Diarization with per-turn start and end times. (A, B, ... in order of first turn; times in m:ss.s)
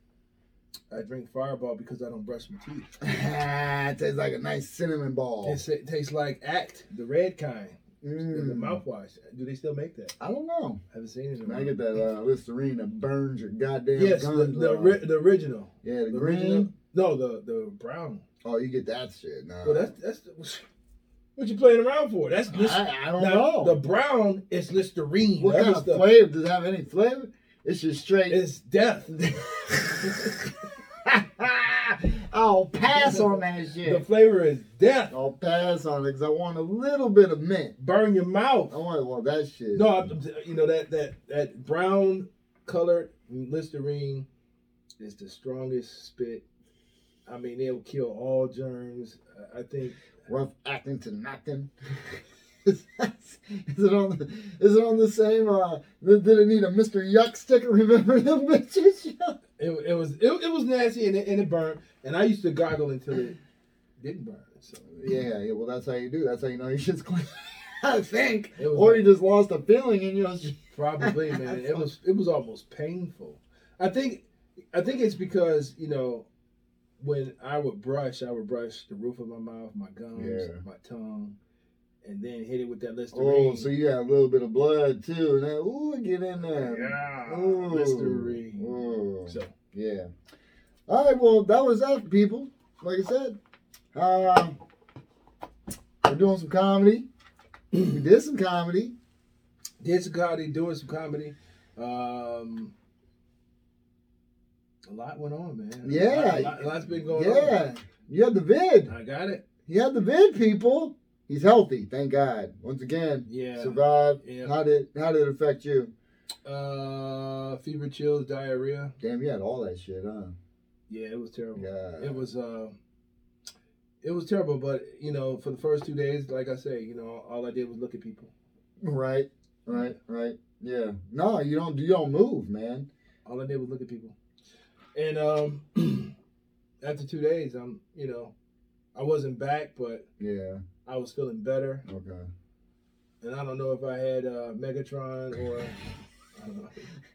0:00.9-0:02.9 A
0:03.0-0:05.6 B
0:05.4-0:10.2 A
0:08.0-0:08.8 B
0:10.2-0:10.8 B
0:10.9-0:11.8 A
0:11.4-0:15.0 B
0:13.9-0:18.2 A
0:15.8-0:16.7 B
0:18.4-0:19.9 B
0:19.6-0:20.6 A
0:21.4-0:26.1 A
0:22.5-0:23.8 B
0:25.4-0:28.4 B
0:28.3-0:29.2 A
0:29.1-0:30.5 B
0:31.0-0:34.0 B
0:32.9-0:35.1 A
0:35.1-0:37.8 B
0:37.8-0:38.8 A
0:38.7-0:40.1 B
0:39.7-0:44.3 A
0:45.0-0:46.4 A
0:47.3-0:50.0 A
0:50.3-0:59.4 B
0:59.6-1:03.4 A
1:04.0-1:04.9 A
1:04.9-1:11.8 B
1:08.6-1:09.1 A
1:10.7-1:16.3 A
1:17.0-1:21.4 A
1:20.2-1:20.6 B
1:22.0-1:23.7 A
1:23.1-1:30.1 B
1:26.5-1:29.5 A
1:30.9-1:33.4 B
1:33.9-1:34.6 B
1:36.0-1:37.1 B
1:37.9-1:39.0 B
1:39.8-1:42.7 A
1:44.9-1:47.6 A
1:45.8-1:48.9 B
1:48.9-1:49.4 A
1:49.7-1:55.9 B
1:53.3-1:54.6 A
1:56.4-1:59.0 A
1:59.0-2:00.3 B
2:00.9-2:02.8 A
2:01.6-2:02.2 B
2:04.0-2:08.3 A
2:08.8-2:12.9 B
2:13.2-2:14.2 A
2:15.0-2:16.1 A
2:16.8-2:18.3 A
2:19.0-2:20.1 A
2:20.2-2:20.6 B
2:20.8-2:21.8 A
2:21.9-2:22.3 B
2:23.2-2:25.8 A
2:26.4-2:26.9 A